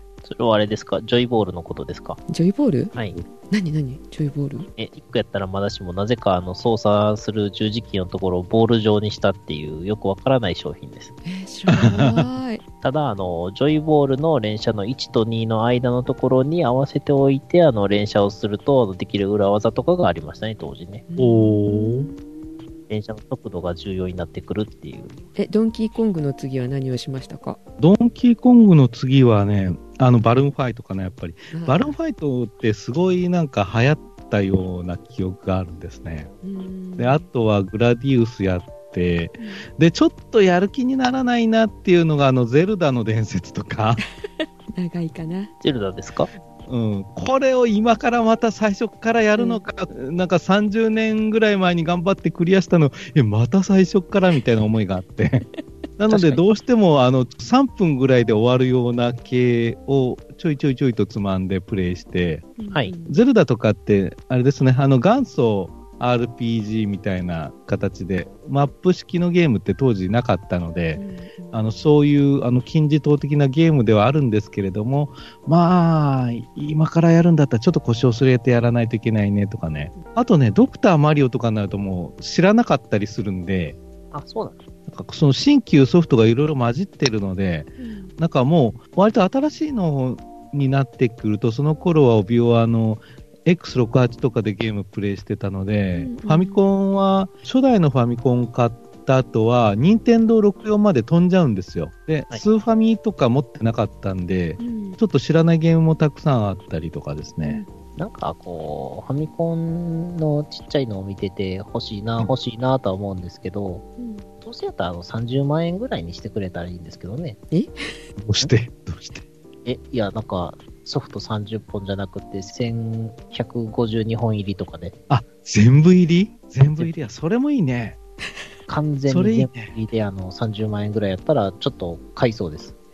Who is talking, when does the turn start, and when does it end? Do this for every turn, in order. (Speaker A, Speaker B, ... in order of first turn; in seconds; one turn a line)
Speaker A: 0.2-2.2
Speaker B: 2.3-2.9
Speaker B: 3.5-4.7
Speaker A: 4.8-11.2
Speaker B: 11.2-12.6
Speaker C: 11.7-12.2
Speaker A: 12.8-21.1
Speaker B: 21.1-22.6
Speaker C: 21.2-22.1
Speaker A: 22.9-25.2
Speaker B: 25.4-27.6
Speaker C: 27.8-36.3
Speaker B: 31.5-31.9
Speaker B: 36.4-37.3
Speaker C: 37.0-44.0
Speaker B: 44.4-45.5
Speaker A: 45.6-46.3
Speaker C: 46.7-55.5
Speaker B: 49.3-49.6
Speaker C: 56.0-62.5
Speaker A: 56.1-56.4
Speaker B: 62.6-63.2
Speaker C: 63.1-83.8
Speaker B: 71.0-71.7
Speaker A: 84.1-84.6
Speaker C: 84.9-107.6
Speaker B: 87.8-88.1
Speaker B: 96.0-96.6
Speaker B: 104.6-105.0
Speaker B: 107.4-107.7
Speaker A: 108.0-113.8
Speaker B: 114.0-114.3
Speaker A: 114.4-117.4
Speaker C: 118.2-119.2
Speaker A: 119.7-124.9
Speaker C: 125.1-128.0
Speaker A: 128.7-132.8
Speaker C: 129.1-129.8